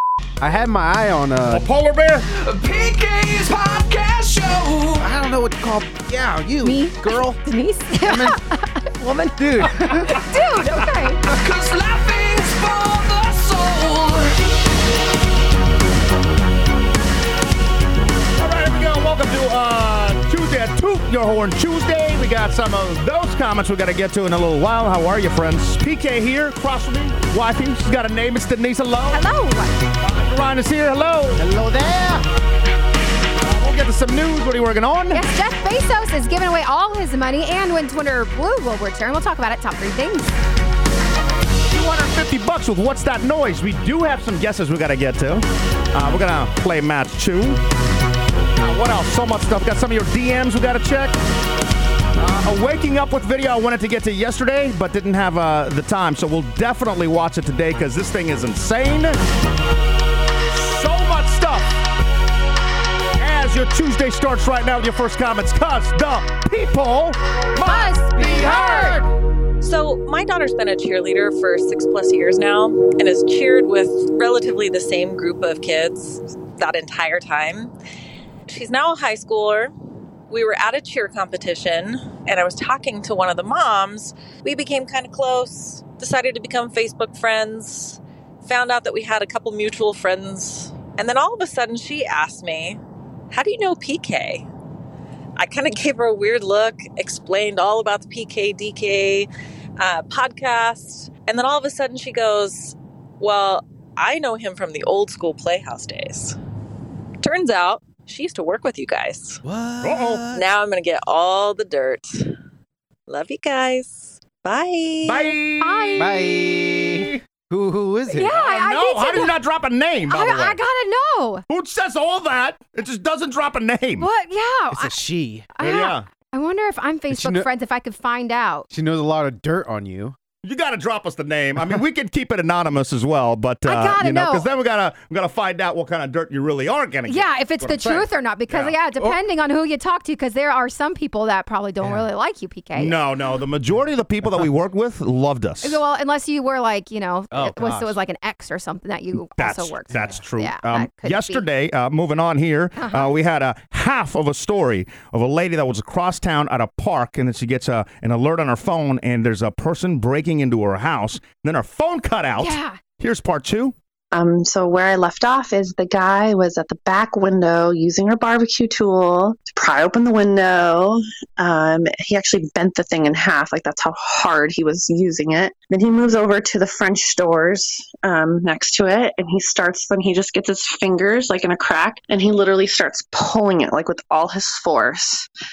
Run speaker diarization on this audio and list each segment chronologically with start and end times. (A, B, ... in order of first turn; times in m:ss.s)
0:00.4-0:01.7 A
0:01.5-0:02.3 B
0:02.3-0:05.1 C
0:05.0-0:07.4 A
0:06.6-0:09.4 D
0:08.0-0:08.4 A
0:09.4-0:10.3 A
0:10.1-0:11.2 D
0:11.2-0:14.4 C
0:18.4-0:29.2 B
0:29.1-0:29.8 D
0:30.0-0:31.4 B
0:31.4-0:32.2 A
0:33.4-0:35.2 B
0:35.1-0:40.4 D
0:41.7-0:47.6 B
0:48.6-0:51.2 B
0:52.2-0:59.2 B
1:00.5-1:01.9 B
1:03.2-1:09.1 B
1:07.6-1:09.1 D
1:09.6-1:17.7 E
1:18.5-1:19.7 E
1:20.3-1:32.8 E
1:33.3-1:34.4 E
1:35.4-1:46.4 E
1:47.2-1:49.4 E
1:49.4-1:50.5 A
1:49.8-1:50.2 B
1:50.3-1:52.3 E
1:53.1-1:55.3 E
1:55.0-1:56.0 B
1:55.6-1:56.7 D
1:56.0-1:58.3 A
1:56.8-1:57.2 B
1:58.1-1:59.4 D
1:58.2-2:00.6 B
2:00.1-2:01.4 D
2:01.5-2:04.1 B
2:04.0-2:05.0 D
2:04.7-2:05.5 A
2:05.6-2:08.7 D
2:05.6-2:06.0 B
2:07.1-2:07.5 A
2:08.7-2:10.2 A
2:10.4-2:18.7 B
2:13.6-2:14.5 D
2:17.1-2:23.0 D
2:21.8-2:22.1 A
2:22.7-2:25.8 B
2:25.6-2:31.4 D
2:27.3-2:28.0 A
2:29.4-2:43.7 B
2:29.9-2:30.2 A
2:32.8-2:33.1 D
2:42.4-2:42.8 D
2:44.1-3:05.3 F